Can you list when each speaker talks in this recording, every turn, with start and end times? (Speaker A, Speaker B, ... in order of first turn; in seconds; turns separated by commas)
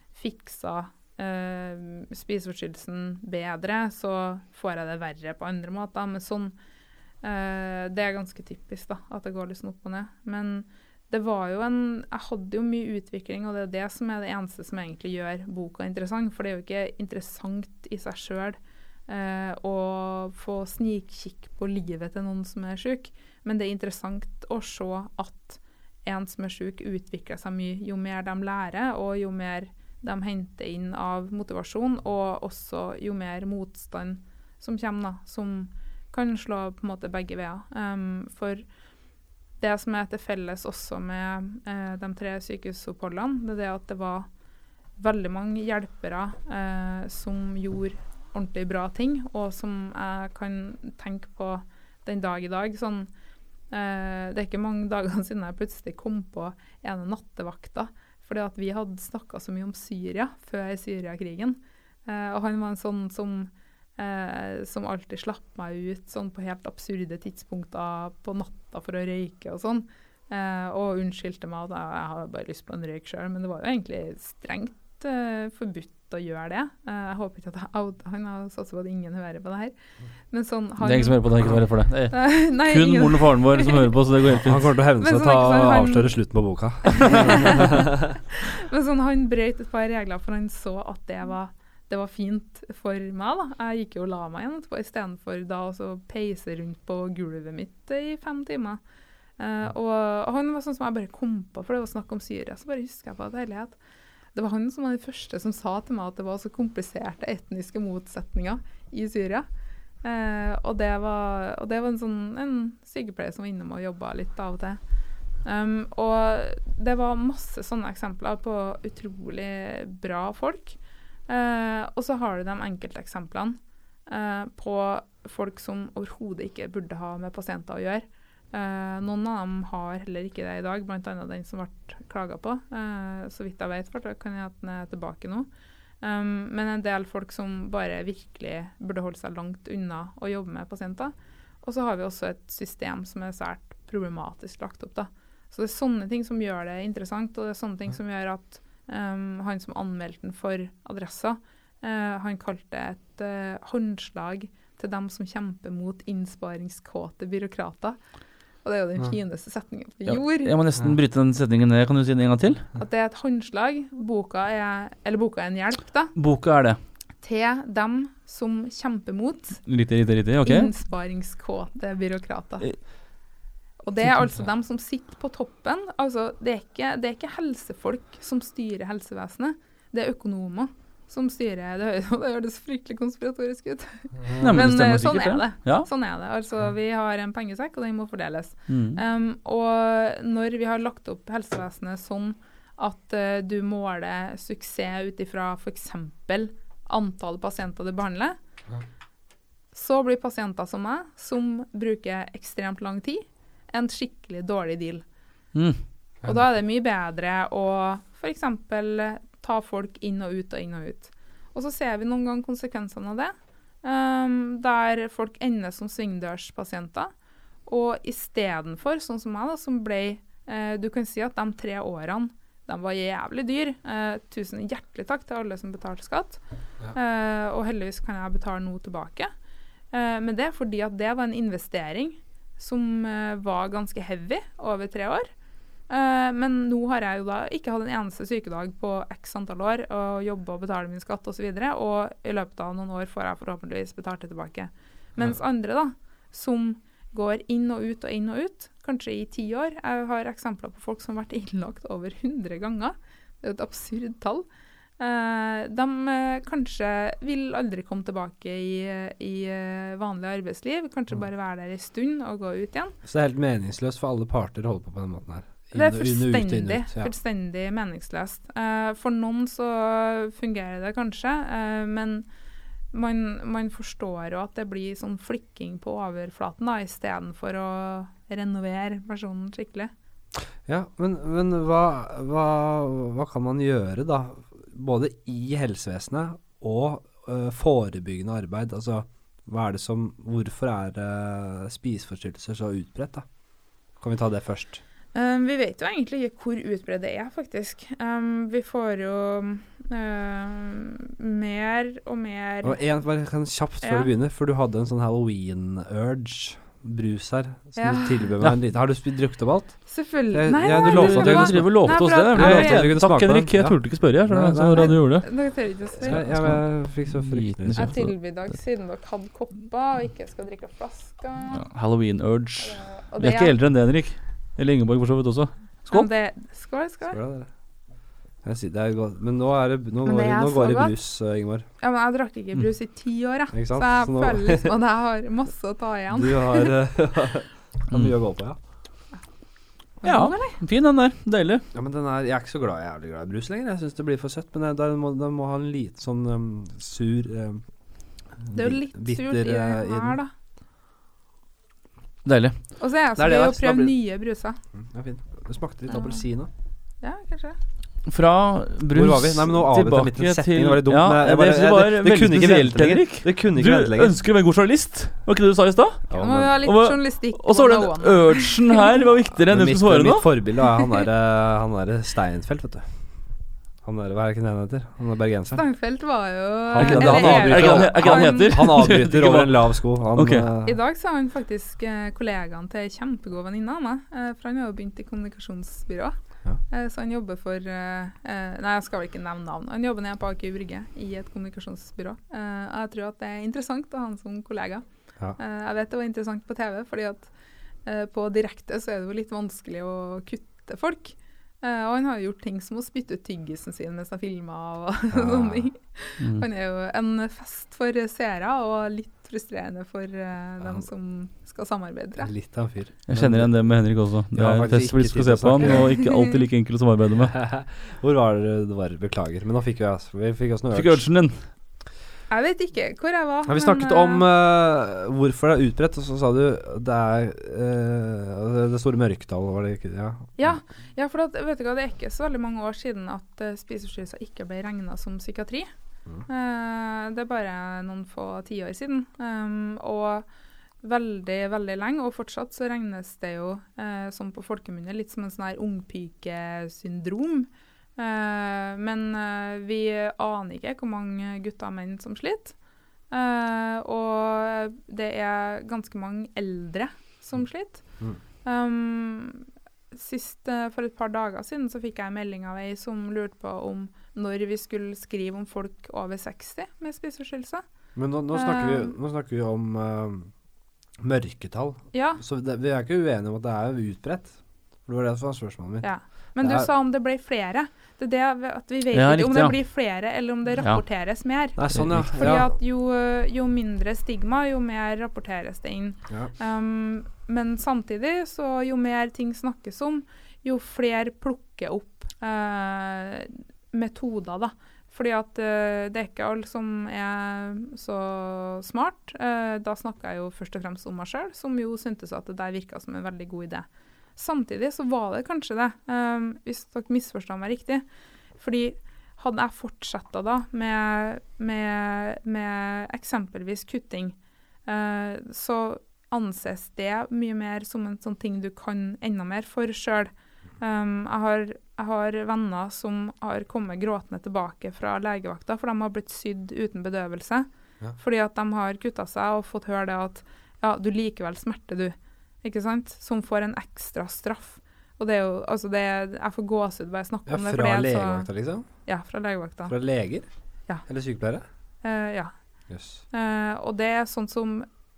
Speaker A: 0.1-6.5, Speaker A: 7.2-38.7, Speaker A: 39.6-44.3, Speaker A: 45.0-53.1, Speaker A: 53.7-79.8, Speaker A: 80.3-81.5, Speaker B: 80.8-84.8, Speaker A: 82.1-83.9, Speaker C: 84.4-88.1, Speaker A: 85.0-86.1, Speaker A: 86.9-87.8, Speaker A: 88.3-98.8, Speaker A: 99.4-103.8, Speaker A: 104.3-109.5, Speaker A: 110.0-114.8, Speaker A: 115.4-120.8, Speaker A: 121.3-135.5, Speaker A: 136.0-158.0, Speaker A: 158.6-160.5, Speaker B: 160.1-162.7, Speaker A: 162.8-166.2, Speaker B: 166.2-166.8, Speaker A: 167.2-169.7, Speaker B: 169.7-170.7, Speaker A: 170.4-172.9, Speaker A: 173.8-198.4, Speaker C: 184.2-184.6, Speaker B: 184.4-185.9, Speaker B: 188.7-189.0, Speaker A: 199.7-205.0, Speaker B: 205.5-205.8, Speaker A: 206.2-217.1, Speaker A: 217.7-226.4, Speaker A: 226.9-229.3, Speaker A: 229.9-235.3, Speaker A: 235.9-254.5, Speaker A: 255.0-263.0, Speaker C: 263.1-267.1, Speaker A: 265.7-272.3, Speaker A: 272.9-279.9, Speaker C: 280.6-293.3, Speaker C: 293.9-294.8, Speaker A: 295.1-302.8, Speaker C: 302.6-315.3, Speaker A: 303.8-304.1, Speaker A: 307.8-308.3, Speaker A: 309.9-312.9, Speaker B: 310.6-315.4, Speaker A: 314.8-316.4, Speaker C: 316.0-317.9, Speaker B: 316.0-318.2, Speaker A: 317.8-321.6, Speaker B: 321.5-326.1, Speaker A: 322.6-323.5, Speaker A: 325.9-327.2, Speaker C: 327.1-327.5, Speaker C: 328.4-331.7, Speaker A: 330.1-331.0, Speaker A: 331.8-336.7, Speaker C: 333.5-334.7, Speaker C: 336.1-338.6, Speaker B: 337.9-338.1, Speaker A: 340.0-340.6, Speaker B: 340.0-341.6, Speaker C: 341.7-347.6, Speaker C: 348.4-350.2, Speaker A: 348.6-350.3, Speaker B: 352.2-352.6, Speaker A: 352.8-354.6, Speaker C: 353.2-353.9, Speaker C: 354.7-356.5, Speaker A: 355.9-356.2, Speaker A: 357.0-357.6, Speaker B: 358.1-370.3, Speaker C: 358.9-364.2, Speaker C: 366.1-366.6, Speaker A: 366.1-369.0, Speaker C: 369.5-372.9, Speaker C: 373.8-375.6, Speaker A: 375.5-378.7, Speaker C: 376.7-380.8, Speaker B: 376.8-380.5, Speaker A: 380.6-386.2, Speaker A: 386.7-394.8, Speaker A: 395.4-397.3, Speaker A: 397.9-412.3, Speaker C: 405.1-405.7, Speaker C: 412.2-413.7, Speaker B: 413.1-417.4, Speaker C: 414.3-415.8, Speaker A: 415.6-416.3, Speaker C: 417.3-421.1, Speaker B: 420.7-421.5, Speaker A: 422.3-424.2, Speaker C: 423.5-430.6, Speaker A: 430.4-435.7, Speaker A: 436.3-440.3, Speaker A: 440.8-452.6, Speaker A: 453.1-467.6, Speaker C: 467.9-470.3, Speaker A: 468.3-468.9, Speaker C: 471.0-476.7, Speaker A: 471.9-472.2, Speaker A: 475.8-507.9, Speaker B: 478.9-479.6, Speaker B: 480.6-480.8, Speaker C: 481.6-482.5, Speaker B: 481.7-482.1, Speaker A: 508.4-538.3, Speaker C: 537.3-538.7, Speaker A: 538.9-539.8, Speaker C: 539.7-540.3, Speaker C: 540.8-541.4, Speaker A: 541.8-542.3, Speaker C: 542.7-543.0, Speaker A: 543.1-544.7